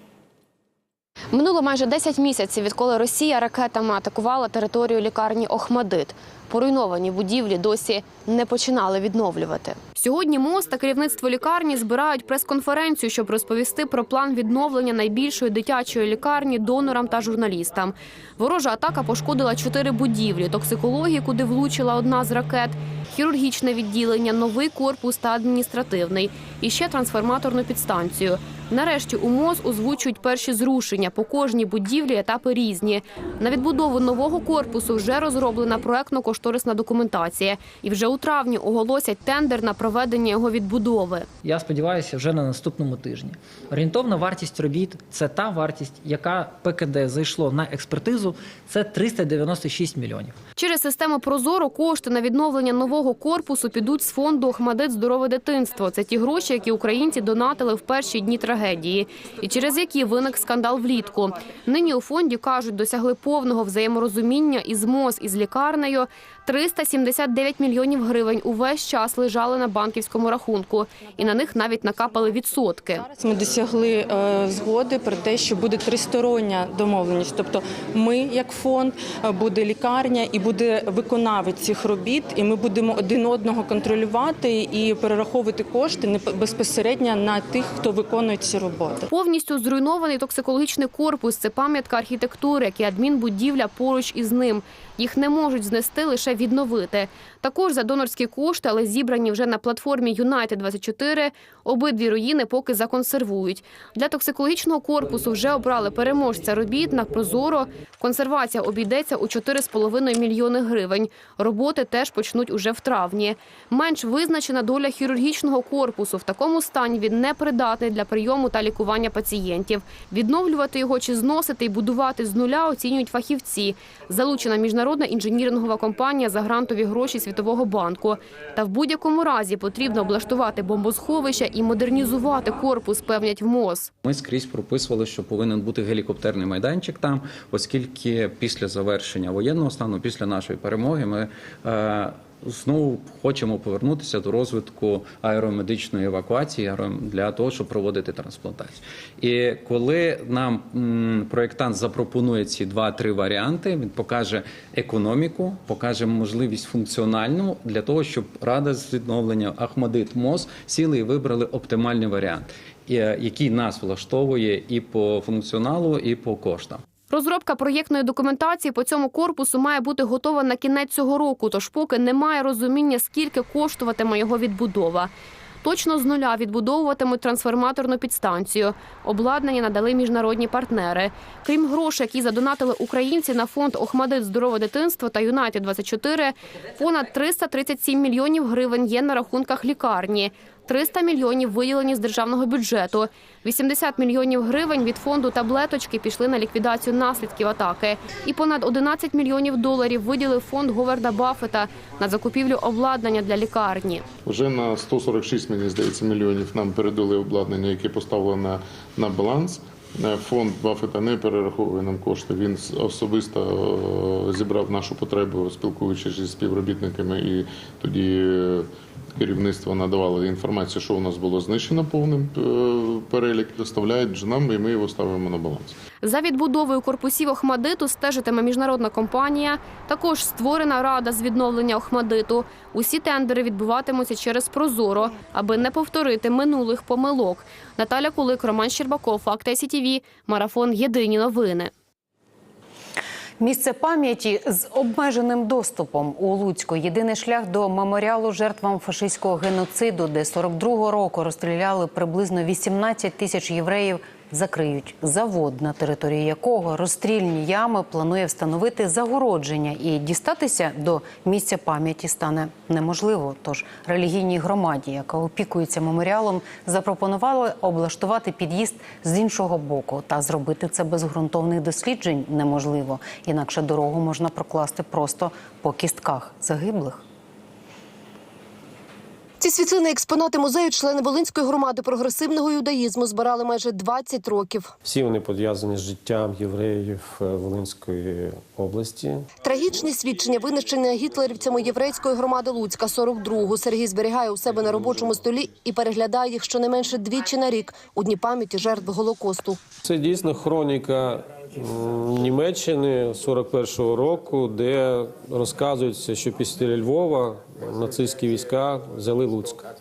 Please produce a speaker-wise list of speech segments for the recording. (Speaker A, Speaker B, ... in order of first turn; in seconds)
Speaker A: 1.3-41.3, 50.5-73.0, 89.1-133.9, 167.1-175.1, 175.6-204.1, 226.0-241.7
Speaker B: 41.4-50.4
Speaker C: 73.0-89.1
Speaker D: 134.0-166.8
Speaker E: 204.2-225.7
Speaker F: 243.4-277.0
Speaker G: 279.4-284.7, 289.4-299.6
Speaker H: 284.8-289.3, 299.8-309.7